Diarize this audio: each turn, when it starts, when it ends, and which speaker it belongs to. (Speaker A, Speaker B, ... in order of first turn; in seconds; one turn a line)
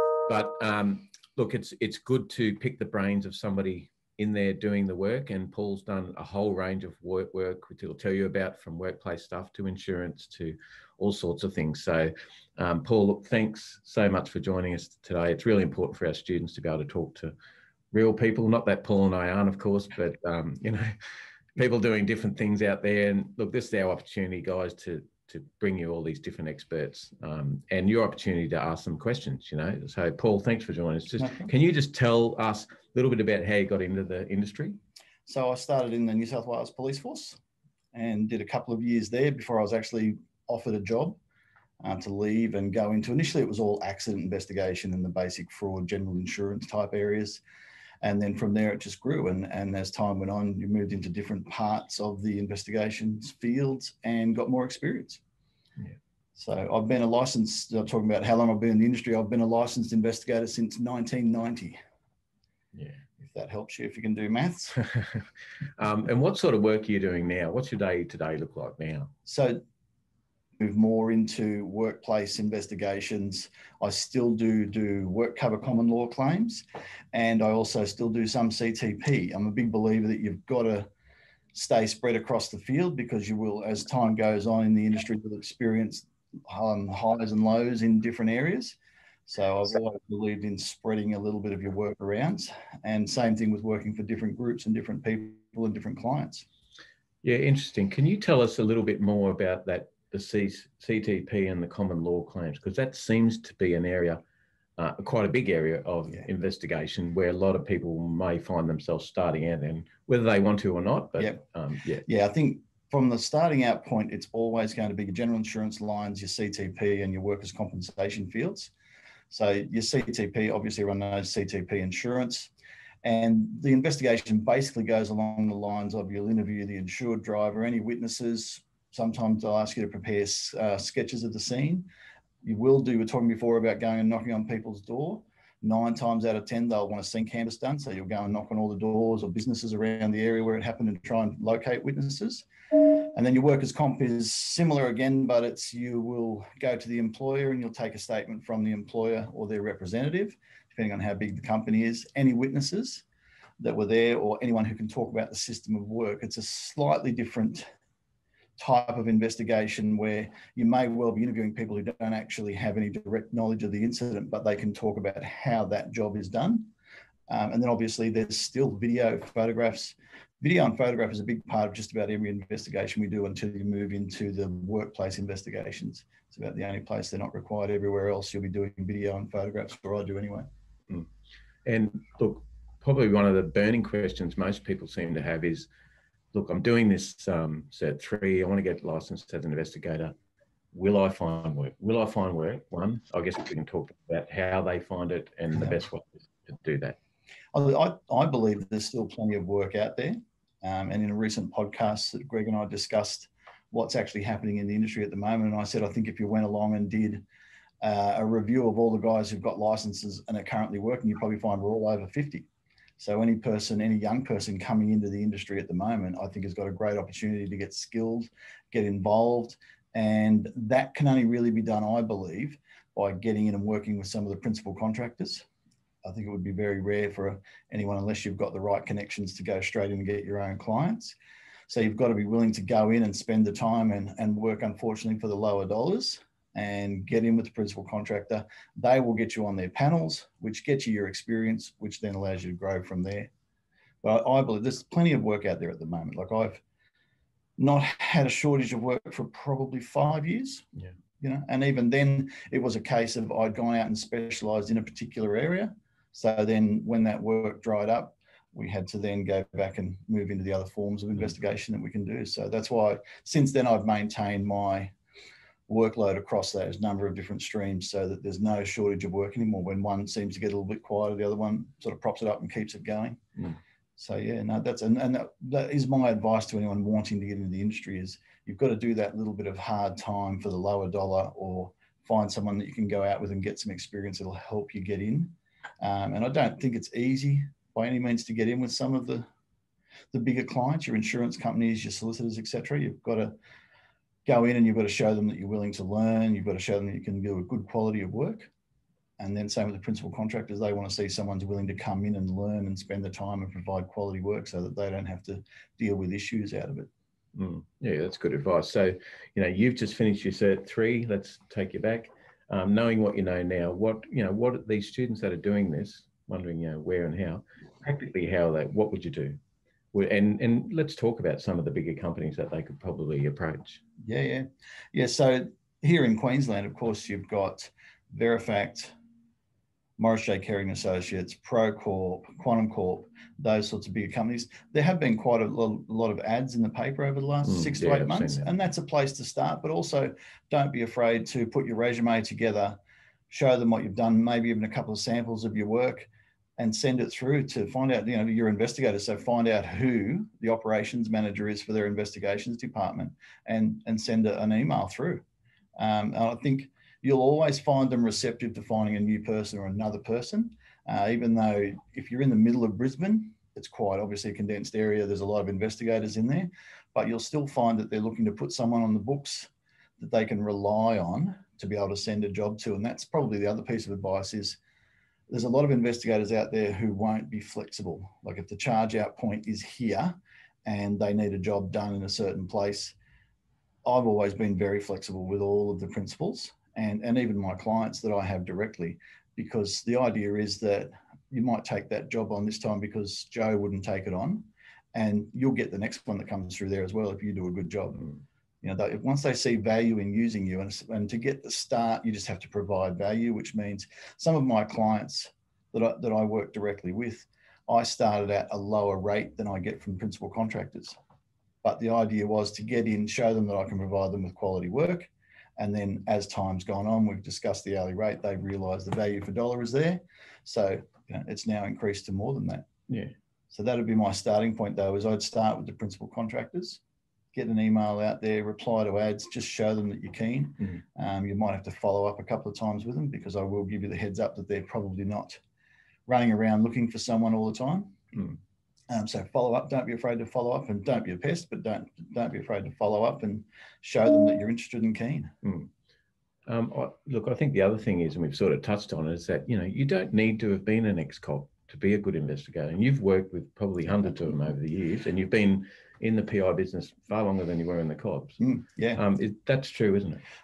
Speaker A: 0.3-17.4
Speaker A: 17.9-21.0
Speaker A: 21.6-34.8
Speaker B: 31.2-31.5
Speaker B: 35.3-37.4
Speaker B: 37.9-41.2
Speaker B: 41.8-47.4
Speaker B: 48.0-55.2
Speaker B: 56.4-61.8
Speaker A: 62.7-63.0
Speaker B: 63.2-64.8
Speaker A: 64.8-65.2
Speaker A: 65.8-69.1
Speaker B: 69.3-69.6
Speaker B: 70.6-80.9
Speaker B: 81.5-96.5
Speaker A: 97.2-104.2
Speaker A: 104.8-112.0
Speaker B: 112.0-118.7
Speaker B: 119.3-122.5
Speaker B: 123.0-131.9
Speaker B: 132.4-153.0
Speaker B: 153.6-157.7
Speaker B: 158.6-166.7
Speaker B: 167.3-180.5
Speaker A: 181.7-185.7
Speaker A: 186.3-190.2
Speaker A: 190.7-197.0
Speaker B: 197.5-207.2
Speaker B: 207.8-212.5
Speaker B: 213.0-225.5
Speaker B: 226.0-231.2
Speaker B: 231.7-243.3
Speaker B: 244.0-246.6
Speaker B: 247.6-250.7
Speaker B: 251.2-264.9
Speaker B: 265.7-273.2
Speaker B: 274.0-289.3
Speaker B: 290.1-293.4
Speaker B: 294.3-298.5
Speaker B: 299.2-306.9
Speaker A: 307.4-319.4
Speaker A: 319.9-323.8
Speaker B: 324.0-328.9
Speaker B: 330.0-342.8
Speaker A: 337.4-338.5
Speaker B: 343.3-355.2
Speaker B: 355.8-374.6
Speaker B: 375.3-382.9
Speaker B: 383.8-398.1
Speaker B: 398.6-411.0
Speaker B: 411.6-422.7
Speaker A: 422.9-423.1
Speaker B: 423.5-426.8
Speaker B: 427.3-435.4
Speaker B: 436.1-438.1
Speaker B: 438.9-445.3
Speaker A: 445.4-445.7
Speaker A: 446.5-458.4
Speaker B: 458.4-459.0
Speaker A: 458.9-460.2